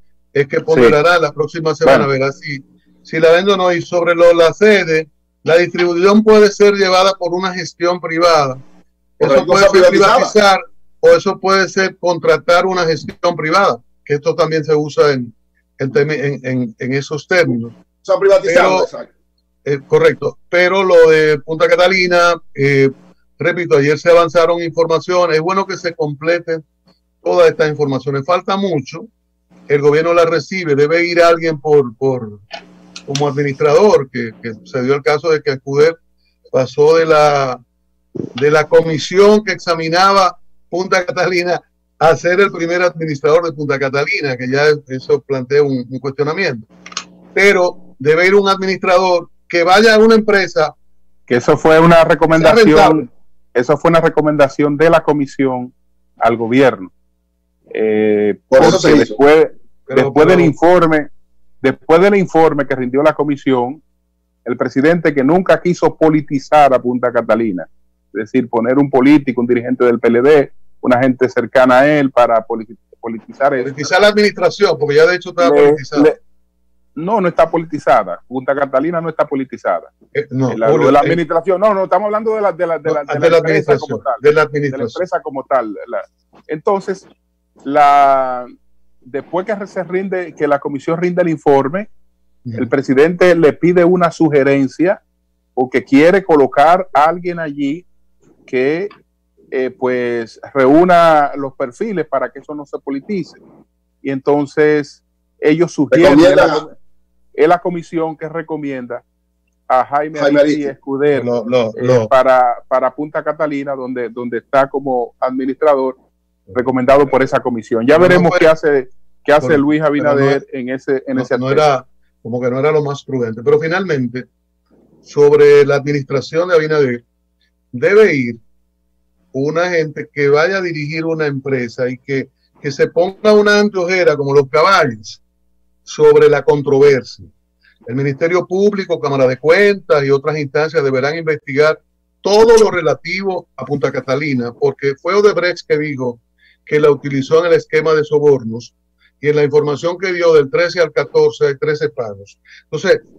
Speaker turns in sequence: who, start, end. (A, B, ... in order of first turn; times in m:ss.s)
0:00.3-0:08.6 A
0:00.7-0:01.0 B
0:09.2-0:17.7 A
0:09.2-0:10.3 C
0:18.0-0:19.1 C
0:18.4-0:18.9 A
0:19.6-0:26.6 A
0:27.2-0:29.1 A
0:29.7-0:32.4 A
0:33.0-0:36.0 A
0:36.5-0:37.6 A
0:38.3-0:46.7 A
0:47.3-0:50.7 A
0:51.3-0:56.9 B
0:52.3-0:53.0 A
0:57.7-1:01.1 B
0:58.5-0:59.1 C
0:59.9-1:00.5 A
1:01.6-1:03.8 B
1:04.4-1:13.8 B
1:13.6-1:16.1 A
1:15.4-1:16.2 B
1:17.0-1:19.9 B
1:20.1-1:21.2 A
1:20.5-1:27.1 B
1:22.8-1:25.0 A
1:27.6-1:28.5 B
1:29.0-1:31.9 B
1:32.4-1:32.7 A
1:32.5-1:35.0 B
1:35.6-1:37.9 B
1:38.5-1:38.9 B
1:39.5-1:43.4 B
1:44.0-1:46.7 B
1:45.9-1:46.6 C
1:47.3-1:49.0 B
1:49.7-1:56.0 B
1:50.1-1:50.7 C
1:51.1-1:52.1 A
1:56.5-2:01.6 B
1:57.9-1:58.5 A
1:59.4-2:00.4 A
2:01.1-2:04.2 A
2:05.0-2:07.0 A
2:07.7-2:08.4 A
2:09.3-2:15.2 A
2:15.8-2:17.3 A
2:17.8-2:33.0 A